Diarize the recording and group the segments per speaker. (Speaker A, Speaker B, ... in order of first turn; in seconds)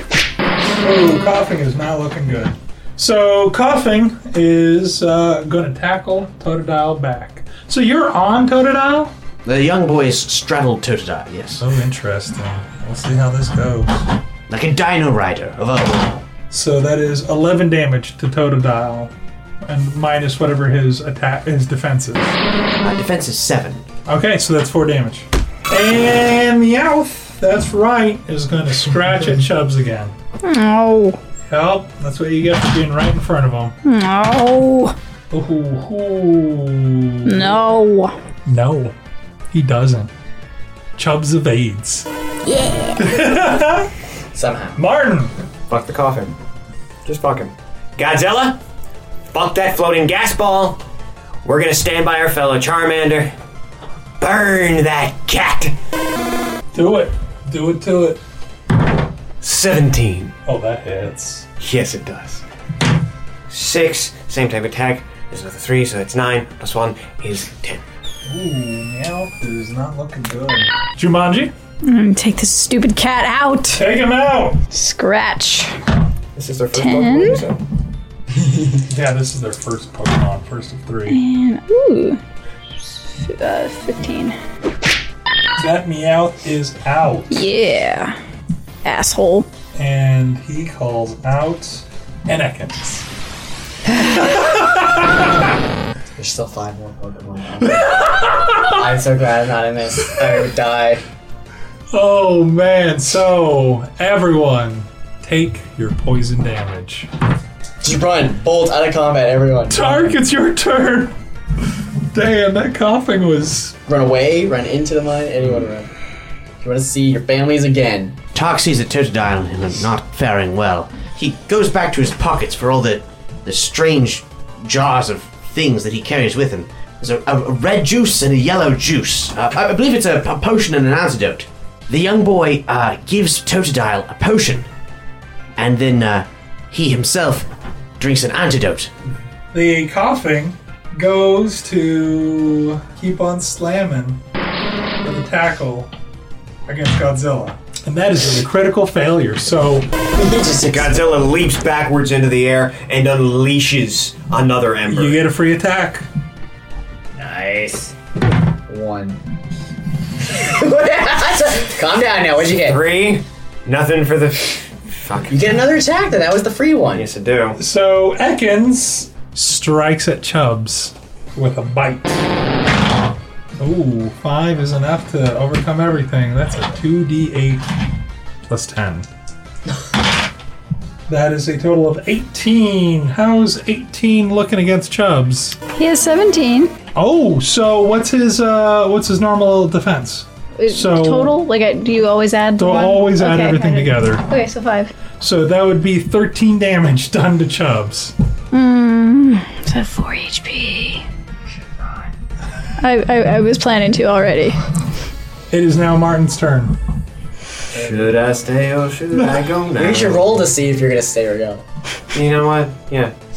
Speaker A: 0.8-9.1, 11.6-14.1, 16.5-19.1, 19.6-22.4, 24.1-30.1, 31.5-33.7, 35.3-37.6, 38.5-38.9, 39.5-40.1, 41.0-42.1, 43.0-43.9, 44.8-45.3, 56.7-58.2, 60.5-61.5, 68.3-71.5, 73.7-74.6, 78.8-81.2, 85.6-87.5, 89.7-93.0, 94.0-95.3, 97.8-98.6, 101.9-107.1, 109.7-111.1, 112.1-113.7, 139.5-144.2, 145.0-145.9, 146.7-149.9, 154.9-156.1, 167.6-172.2, 173.6-177.7, 178.5-179.1, 181.1-185.6, 186.9-191.4, 192.6-194.3, 195.2-198.1, 205.5-206.8
Speaker B: 9.4-11.6, 14.5-16.2, 22.8-23.8, 118.3-134.7, 135.6-137.5, 138.0-138.9
Speaker C: 30.4-31.2, 33.8-34.9, 37.2-38.1, 42.5-42.9, 71.8-73.8, 74.7-75.7, 76.7-77.4, 81.1-82.2, 83.2-84.4, 87.3-88.2, 88.8-89.5, 185.7-186.7, 190.6-194.9, 198.5-201.0, 202.8-204.6
Speaker D: 44.3-44.8, 96.2-101.0, 107.8-110.2, 113.9-115.9, 116.6-118.2, 150.1-151.0, 157.2-157.9, 158.7-159.2, 160.3-162.8, 165.3-167.1, 209.8-211.6
Speaker E: 45.7-46.3, 47.0-48.6, 49.3-50.8, 51.4-53.3, 54.2-55.7, 59.4-60.3, 61.6-62.4, 63.5-67.8, 76.3-77.6, 150.7-155.2, 162.6-165.6, 166.9-167.6, 207.7-210.4, 212.1-213.1